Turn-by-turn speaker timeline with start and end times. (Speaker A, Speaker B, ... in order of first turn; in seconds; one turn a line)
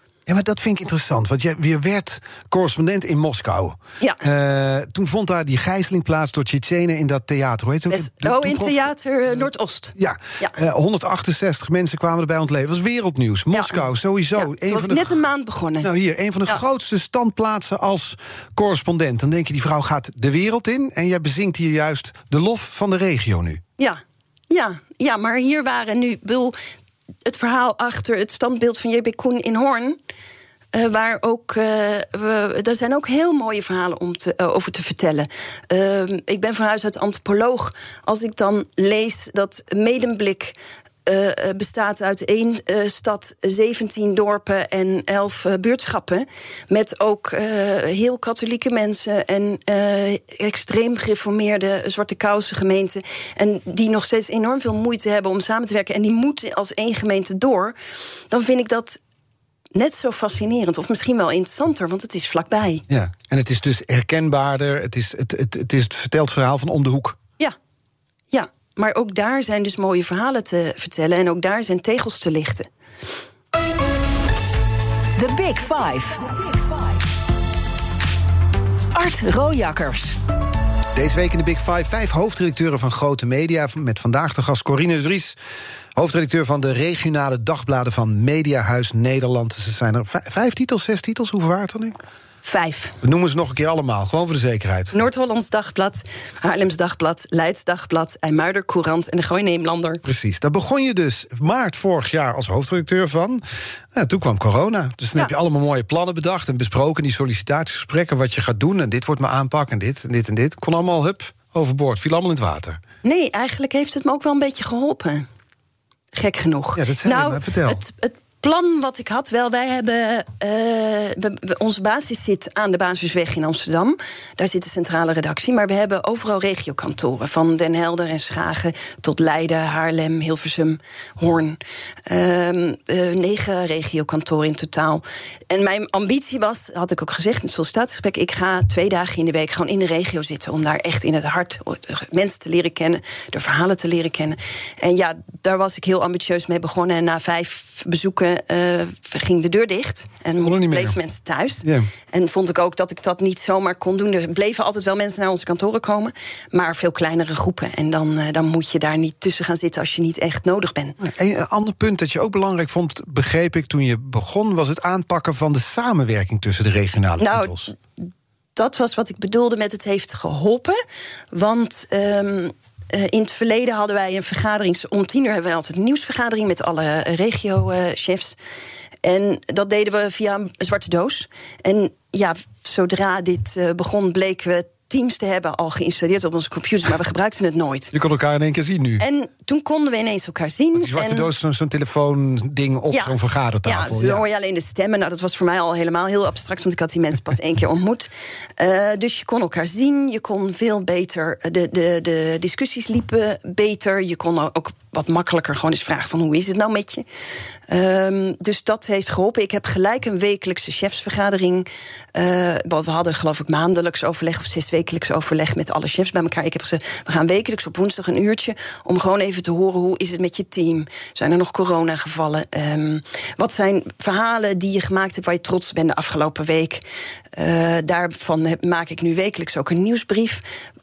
Speaker A: 0.3-8.9
Speaker B: 7.9-10.5
Speaker A: 9.9-15.2
Speaker B: 13.5-13.8
Speaker B: 14.3-15.9
Speaker A: 15.8-23.6
Speaker B: 23.8-26.6
Speaker B: 27.2-30.0
Speaker B: 30.7-57.8
Speaker B: 58.3-59.0
Speaker B: 59.7-62.8
Speaker A: 62.9-67.2
Speaker B: 68.3-72.7
Speaker C: 75.2-76.8
Speaker C: 78.9-80.2
Speaker A: 80.9-85.4
Speaker A: 85.9-92.0
Speaker B: 92.4-93.0
Speaker A: 93.0-94.9
Speaker B: 94.9-100.0
Speaker A: 100.0-112.8
Speaker B: 113.0-115.3
Speaker B: 116.1-161.0
Speaker A: 116.7-117.8
Speaker A: 150.4-151.0
Speaker A: 151.6-151.9
Speaker A: 161.0-167.7
Speaker B: 167.2-170.8
Speaker B: 171.3-178.4
Speaker B: 179.0-187.9
Speaker A: 187.9-189.0
Speaker B: 189.0-191.3
Speaker A: 190.8-194.2
Speaker B: 192.9-207.1
Speaker B: 207.7-226.8
Speaker B: 227.3-230.4